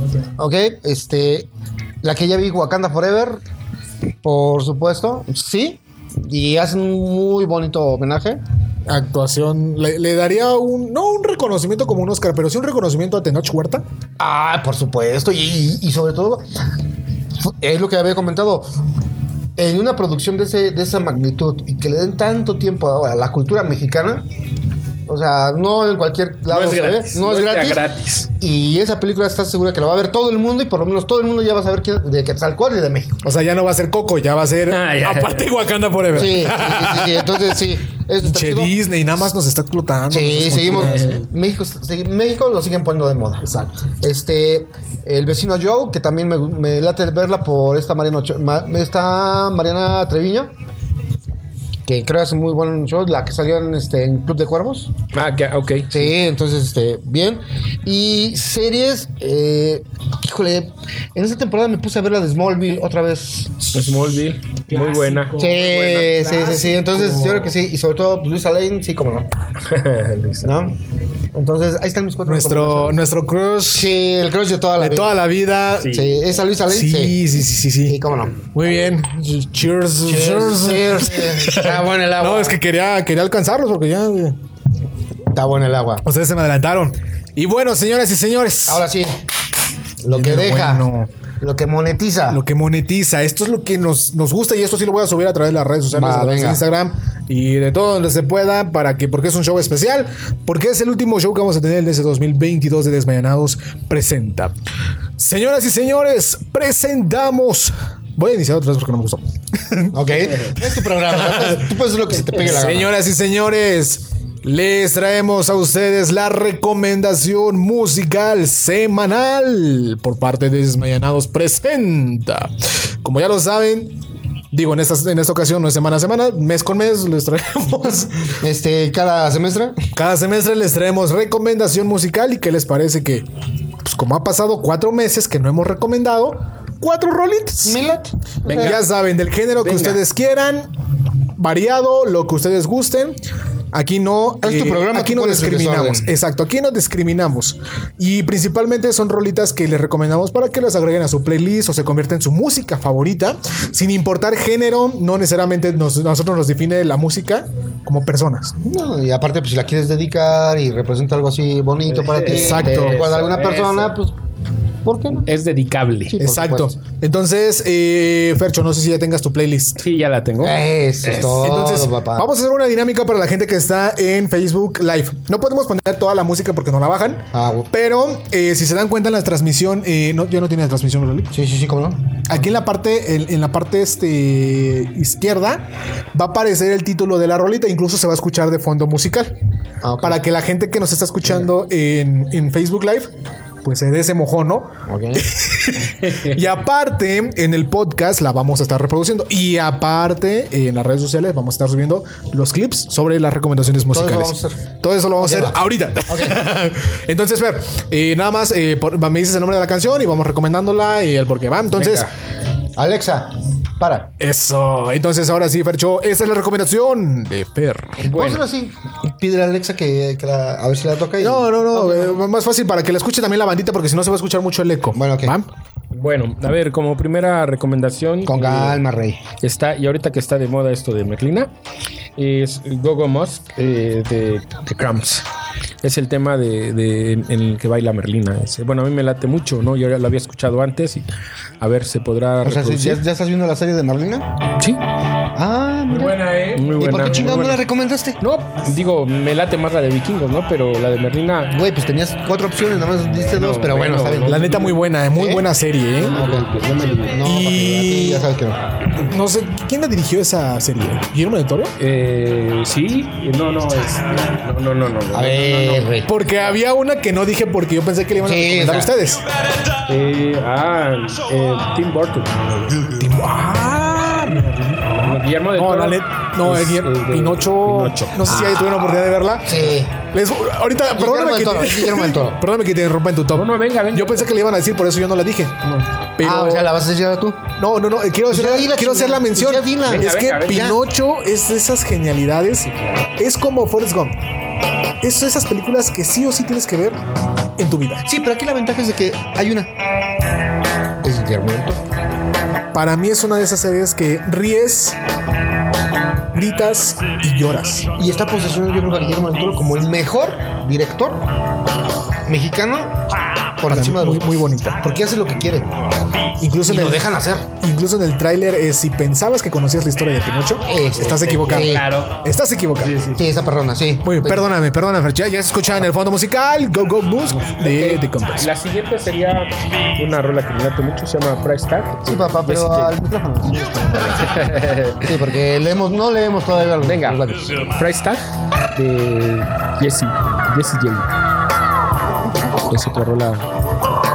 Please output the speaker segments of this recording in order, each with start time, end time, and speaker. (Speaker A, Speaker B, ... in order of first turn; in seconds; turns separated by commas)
Speaker A: 0.4-1.5, Speaker A: 2.0-3.4, Speaker A: 4.2-8.4, Speaker B: 8.9-13.8, Speaker A: 14.2-16.5, Speaker A: 17.4-18.7, Speaker A: 19.6-24.2, Speaker A: 25.1-27.8, Speaker C: 26.5-28.3, Speaker A: 28.4-33.2, Speaker B: 33.2-37.5, Speaker C: 34.7-35.5, Speaker A: 36.1-38.7, Speaker B: 38.2-41.2, Speaker A: 40.1-43.5, Speaker C: 40.8-41.2, Speaker B: 43.4-43.7, Speaker A: 44.0-50.5, Speaker A: 51.9-54.9, Speaker C: 55.1-56.1, Speaker A: 55.9-63.9, Speaker C: 63.7-65.6, Speaker B: 64.7-67.5, Speaker A: 65.3-69.3, Speaker C: 69.6-70.5, Speaker A: 70.4-70.8, Speaker A: 71.3-73.0, Speaker B: 72.2-73.9, Speaker A: 73.7-75.1, Speaker B: 74.8-76.1, Speaker C: 75.8-76.2, Speaker A: 75.9-77.2, Speaker B: 76.7-78.0, Speaker A: 77.8-78.4, Speaker B: 78.5-84.4, Speaker A: 80.0-82.6, Speaker A: 85.3-86.0, Speaker B: 86.0-88.8, Speaker A: 88.7-89.2, Speaker A: 90.0-90.9, Speaker B: 90.1-91.1, Speaker A: 91.4-92.4, Speaker B: 92.3-104.5, Speaker A: 95.9-96.6, Speaker B: 105.2-109.9, Speaker A: 109.9-112.9, Speaker B: 110.5-111.7, Speaker B: 112.3-124.0, Speaker B: 124.5-128.4, Speaker A: 128.4-129.8, Speaker B: 129.9-133.2, Speaker B: 133.8-137.8, Speaker A: 137.6-138.8, Speaker C: 138.4-138.8, Speaker B: 138.5-140.7, Speaker C: 139.6-140.0, Speaker B: 141.4-143.2, Speaker B: 143.7-158.5, Speaker A: 144.4-146.1, Speaker A: 158.6-164.2, Speaker C: 161.9-163.9, Speaker B: 162.2-163.0, Speaker A: 164.8-165.3, Speaker C: 165.1-166.2, Speaker A: 166.1-166.7, Speaker B: 166.2-169.8, Speaker C: 169.8-170.6, Speaker A: 170.4-172.3, Speaker B: 171.1-181.3, Speaker A: 177.3-177.7, Speaker A: 181.3-182.1, Speaker B: 182.2-189.3, Speaker A: 189.8-190.2, Speaker B: 190.0-193.1, Speaker B: 193.6-212.1, Speaker A: 194.9-195.2, Speaker C: 196.0-196.3, Speaker A: 203.9-204.6, Speaker A: 205.2-206.4, Speaker C: 211.8-212.1, Speaker A: 212.8-214.1, Speaker B: 214.2-218.0, Speaker C: 218.0-218.4, Speaker A: 218.0-222.1, Speaker B: 221.2-225.5, Speaker A: 224.9-225.3, Speaker C: 225.9-228.8, Speaker A: 228.2-229.2, Speaker C: 229.4-231.5, Speaker C: 232.2-235.2, Speaker C: 235.8-241.1, Speaker C: 241.6-243.0, Speaker A: 242.4-244.4, Speaker A: 245.3-246.2, Speaker B: 245.9-247.4, Speaker C: 246.5-247.6, Speaker A: 246.8-248.2, Speaker C: 248.2-251.6, Speaker A: 251.5-254.6, Speaker C: 253.1-254.7, Speaker B: 254.2-256.3, Speaker A: 255.1-255.5, Speaker C: 256.0-257.2, Speaker A: 256.0-256.5, Speaker A: 257.0-258.6, Speaker B: 257.2-258.3, Speaker B: 258.9-261.7, Speaker C: 261.8-265.9, Speaker A: 265.1-266.1, Speaker B: 266.1-269.2, Speaker A: 268.2-268.9, Speaker C: 269.9-272.8, Speaker B: 272.8-286.7, Speaker C: 275.0-278.7, Speaker A: 279.4-280.0, Speaker A: 280.9-282.4, Speaker C: 283.3-284.3, Speaker A: 286.2-287.4, Speaker B: 287.6-294.1, Speaker A: 288.3-290.8, Speaker C: 289.9-290.7, Speaker C: 292.7-293.1, Speaker B: 295.0-297.0, Speaker B: 297.6-298.1, Speaker A: 298.1-299.7, Speaker A: 301.0-301.8, Speaker B: 302.7-305.0, Speaker B: 306.3-307.9, Speaker A: 307.9-311.3, Speaker A: 312.2-315.7, Speaker B: 313.7-314.9, Speaker B: 316.4-323.0, Speaker A: 316.6-317.5, Speaker A: 320.6-321.9, Speaker C: 321.0-322.2, Speaker C: 322.8-323.2, Speaker A: 323.1-324.5, Speaker B: 324.0-328.5, Speaker C: 327.6-332.9, Speaker A: 332.0-337.7, Speaker C: 334.2-335.1, Speaker C: 336.8-341.1, Speaker C: 342.6-343.5